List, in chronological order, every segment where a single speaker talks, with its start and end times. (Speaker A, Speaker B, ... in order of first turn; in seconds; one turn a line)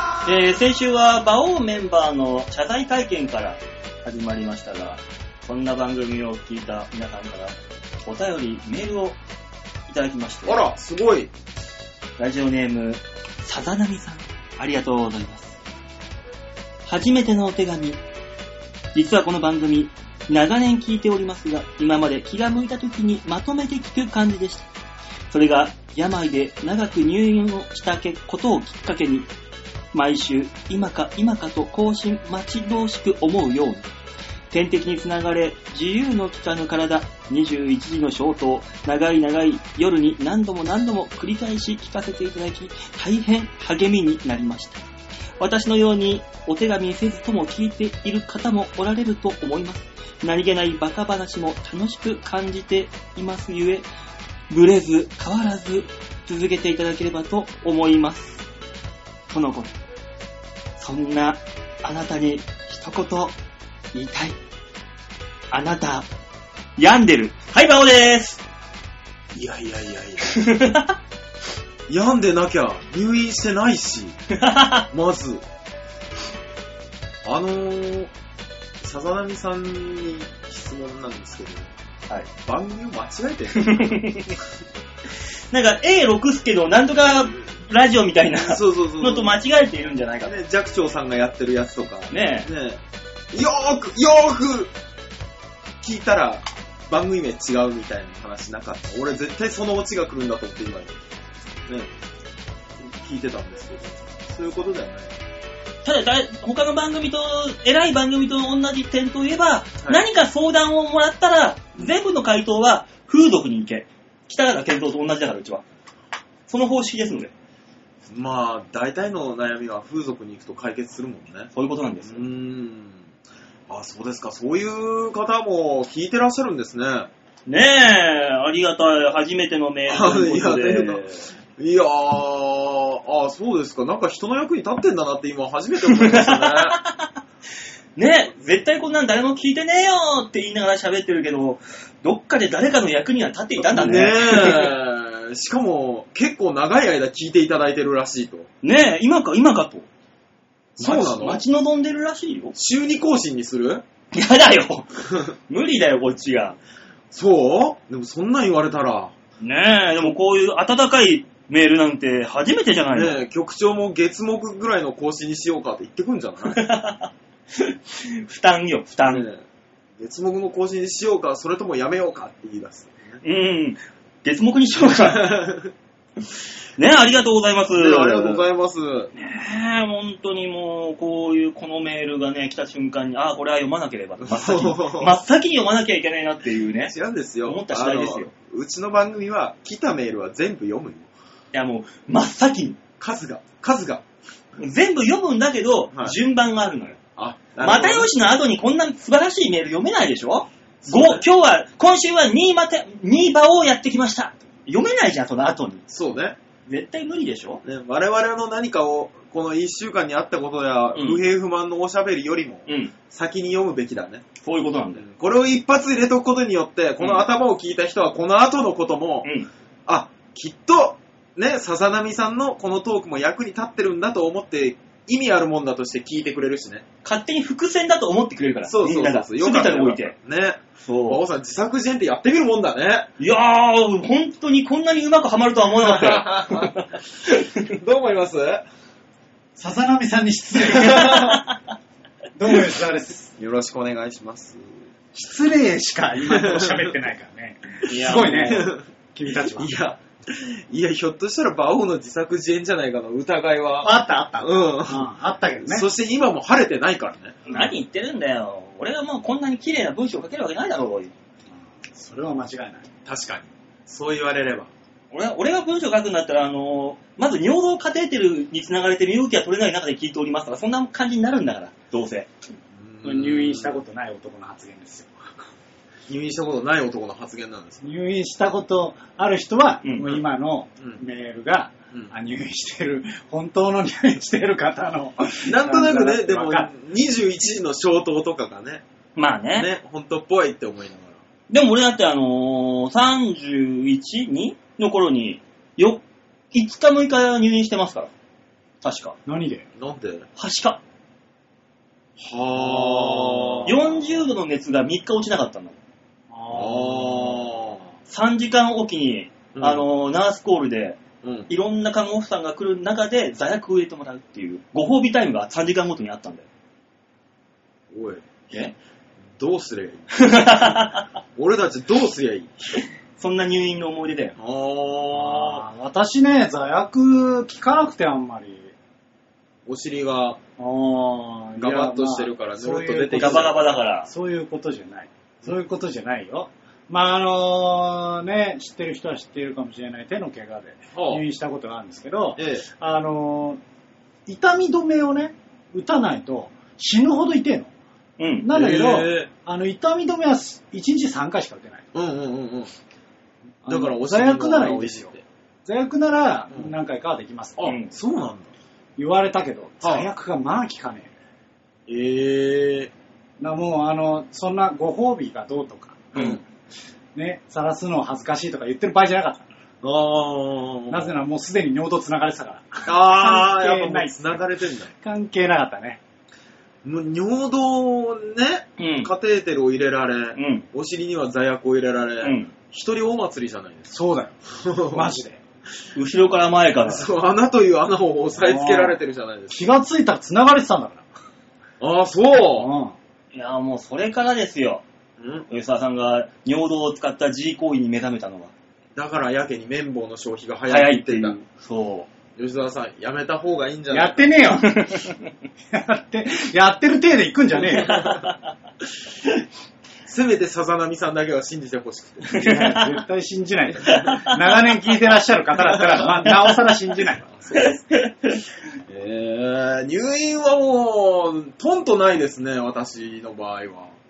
Speaker A: 0.2-9.2
Speaker A: 9.9-10.6
Speaker B: 10.4-11.3
Speaker A: 12.2-15.6
Speaker A: 16.9-18.0
Speaker A: 18.9-24.7
Speaker A: 25.3-29.3
Speaker A: 29.9-33.9
Speaker A: 34.5-44.8
Speaker A: 45.4-53.9
Speaker A: 54.5-58.4
Speaker A: 59.3-59.8
Speaker A: 60.8-63.3
Speaker A: 63.9-64.3
Speaker A: 65.5-66.1
Speaker A: 66.8-68.4
Speaker B: 69.3-70.4
Speaker A: 70.2-70.9
Speaker B: 71.9-74.2
Speaker A: 74.3-74.9
Speaker B: 74.9-75.4
Speaker B: 77.2-78.1
Speaker B: 78.8-81.7
Speaker B: 82.4-84.1
Speaker A: 83.5-84.4
Speaker A: 85.5-90.3
Speaker B: 88.4-89.4
Speaker B: 90.2-92.8
Speaker A: 92.1-92.5
Speaker B: 93.3-94.7
Speaker B: 95.8-101.0
Speaker B: 102.8-105.2
Speaker A: 105.8-115.6
Speaker A: 116.5-117.3
Speaker B: 118.1-121.5
Speaker A: 121.5-122.2
Speaker B: 122.0-123.0
Speaker B: 123.7-127.1
Speaker A: 127.5-131.2
Speaker B: 129.9-131.0
Speaker B: 131.6-136.8
Speaker A: 135.9-137.1
Speaker A: 137.9-144.8
Speaker B: 143.6-148.5
Speaker A: 148.6-149.8
Speaker B: 150.8-151.4
Speaker A: 150.8-152.5
Speaker B: 152.5-153.8
Speaker A: 154.1-156.6
Speaker B: 157.1-159.1
Speaker A: 159.4-163.2
Speaker B: 162.9-166.6
Speaker A: 166.5-169.3
Speaker B: 169.0-169.4
Speaker B: 170.0-173.2
Speaker A: 173.2-175.4
Speaker B: 174.8-175.7
Speaker A: 176.8-178.4
Speaker B: 177.7-179.1
Speaker A: 179.2-186.9
Speaker B: 184.2-185.1
Speaker B: 186.9-191.1
Speaker A: 187.4-188.2
Speaker A: 191.5-192.8
Speaker B: 193.0-194.0
Speaker A: 194.6-197.0
Speaker B: 197.2-198.1
Speaker A: 197.6-205.8
Speaker B: 200.8-201.2
Speaker B: 205.9-206.4
Speaker A: 206.7-207.6
Speaker B: 207.6-214.2
Speaker A: 210.9-211.2
Speaker A: 212.7-212.9
Speaker A: 214.4-215.0
Speaker B: 215.0-219.3
Speaker A: 217.0-217.2
Speaker A: 219.2-219.5
Speaker B: 219.9-226.8
Speaker A: 227.0-230.1
Speaker B: 228.7-233.1
Speaker A: 230.8-231.2
Speaker A: 233.2-237.7
Speaker B: 235.8-236.8
Speaker B: 237.6-238.6
Speaker C: 239.6-241.4
Speaker B: 240.6-241.4
Speaker C: 242.3-243.3
Speaker B: 243.4-244.7
Speaker C: 245.1-249.7
Speaker B: 246.2-246.9
Speaker A: 247.9-248.7
Speaker B: 247.9-248.8
Speaker B: 249.5-255.1
Speaker C: 253.8-255.9
Speaker B: 255.6-257.6
Speaker A: 257.5-261.1
Speaker C: 261.9-262.9
Speaker B: 263.0-264.7
Speaker A: 265.1-272.3
Speaker B: 272.8-273.8
Speaker C: 273.0-275.1
Speaker B: 276.1-277.8
Speaker C: 277.8-286.7
Speaker A: 279.8-280.2
Speaker B: 285.4-288.8
Speaker A: 289.1-289.7
Speaker B: 289.5-291.2
Speaker A: 291.5-296.0
Speaker A: 296.5-298.1
Speaker A: 298.8-299.1
Speaker C: 299.2-299.6
Speaker B: 299.8-300.3
Speaker A: 300.4-300.8
Speaker B: 302.2-304.0
Speaker A: 302.6-305.8
Speaker C: 306.3-307.5
Speaker B: 306.5-307.8
Speaker A: 308.1-316.4
Speaker B: 309.5-309.8
Speaker B: 311.2-311.5
Speaker B: 317.9-318.2
Speaker B: 319.4-322.8
Speaker A: 320.1-321.0
Speaker A: 323.2-324.4
Speaker B: 324.4-325.6
Speaker C: 325.1-328.7
Speaker B: 329.6-330.4
Speaker C: 330.6-343.6
Speaker B: 331.6-333.6
Speaker A: 333.1-334.1
Speaker B: 340.9-341.2
Speaker B: 342.4-342.6
Speaker C: 344.2-347.7
Speaker A: 348.2-348.5
Speaker C: 348.4-351.9
Speaker B: 348.5-349.3
Speaker B: 351.9-352.7
Speaker C: 353.6-355.1
Speaker B: 353.7-355.2
Speaker C: 355.6-357.6
Speaker B: 357.6-358.5
Speaker A: 357.6-357.9
Speaker C: 359.0-361.1
Speaker B: 359.8-360.1
Speaker B: 361.9-362.9
Speaker C: 363.4-366.1
Speaker A: 366.1-366.4
Speaker B: 366.1-366.4
Speaker C: 367.1-369.5
Speaker B: 369.8-371.1
Speaker C: 370.9-374.4
Speaker B: 372.9-374.9
Speaker C: 374.9-376.0
Speaker B: 376.8-383.9
Speaker A: 378.8-379.1
Speaker A: 380.4-380.6
Speaker A: 382.2-382.5
Speaker C: 383.9-384.4
Speaker B: 384.5-385.1
Speaker C: 384.9-385.4
Speaker A: 385.9-387.1
Speaker B: 386.8-389.7
Speaker C: 388.4-389.0
Speaker C: 389.5-391.0
Speaker B: 391.8-392.7
Speaker C: 392.6-392.9
Speaker A: 393.3-394.8
Speaker B: 395.2-395.5
Speaker A: 395.5-398.5
Speaker B: 398.9-401.3
Speaker A: 400.7-402.1
Speaker B: 402.4-404.3
Speaker C: 403.9-404.9
Speaker A: 404.6-405.1
Speaker C: 405.7-408.1
Speaker A: 407.8-408.4
Speaker B: 410.1-412.6
Speaker A: 412.3-412.8
Speaker C: 412.3-417.3
Speaker B: 413.7-414.3
Speaker B: 417.3-417.8
Speaker A: 417.5-418.4
Speaker B: 418.9-423.9